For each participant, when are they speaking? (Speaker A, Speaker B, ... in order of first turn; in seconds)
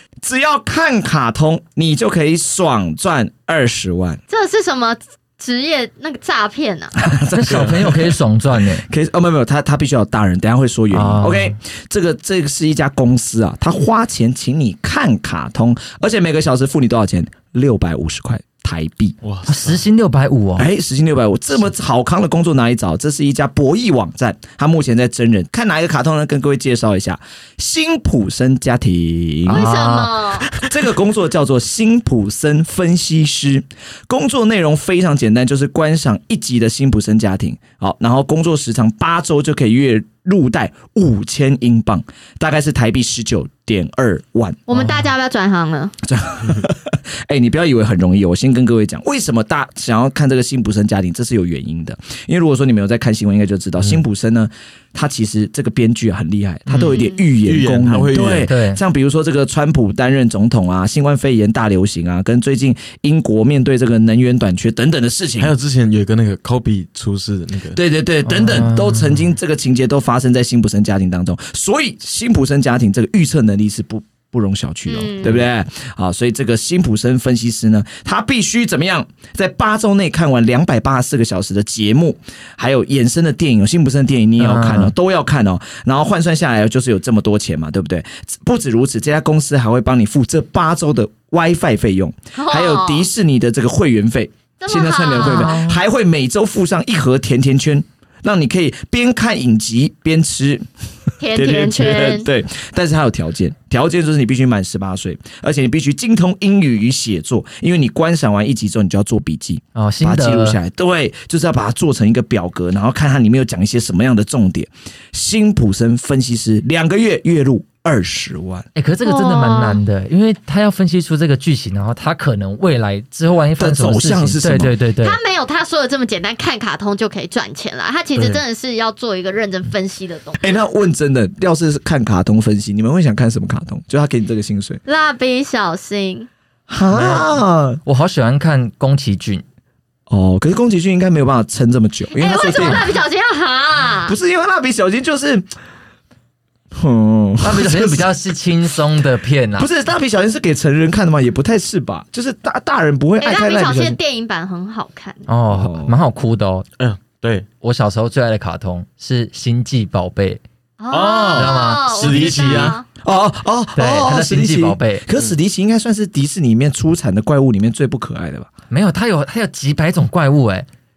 Speaker A: 0.2-4.2, 7.0-8.2, 8.7-19.1, 20.6-29.7, 30.5-44.6, 46.0-65.5, 67.7-118.7, 123.6-124.8, 130.4-134.8, 136.7-137.8, 140.1-142.9, 144.1-145.5, 146.7-148.1, 149.6-154.0, 155.5-155.9, 163.0-168.5
Speaker B: 4.3-7.0, 29.5-30.5, 44.7-45.9, 56.7-57.2, 74.9-75.4, 92.3-93.1, 94.6-95.6, 101.2-102.3, 119.0-119.8, 125.0-130.5, 134.8-136.3, 142.1-144.2, 153.2-155.3, 160.8-162.8
Speaker C: 7.3-8.8, 10.9-11.6, 19.4-20.7, 29.5-30.2, 44.7-45.1, 58.4-58.8, 68.2-69.3, 84.4-84.9, 95.2-95.8, 109.7-110.6, 118.7-125.2, 136.9-137.3, 137.8-139.4, 147.4-149.7, 155.3-156.7, 157.6-160.4, 161.3-162.7, 163.8-165.0, 168.7-170.7
Speaker D: 19.2-19.8, 57.4-58.5, 65.4-67.8, 156.8-157.4, 160.9-162.8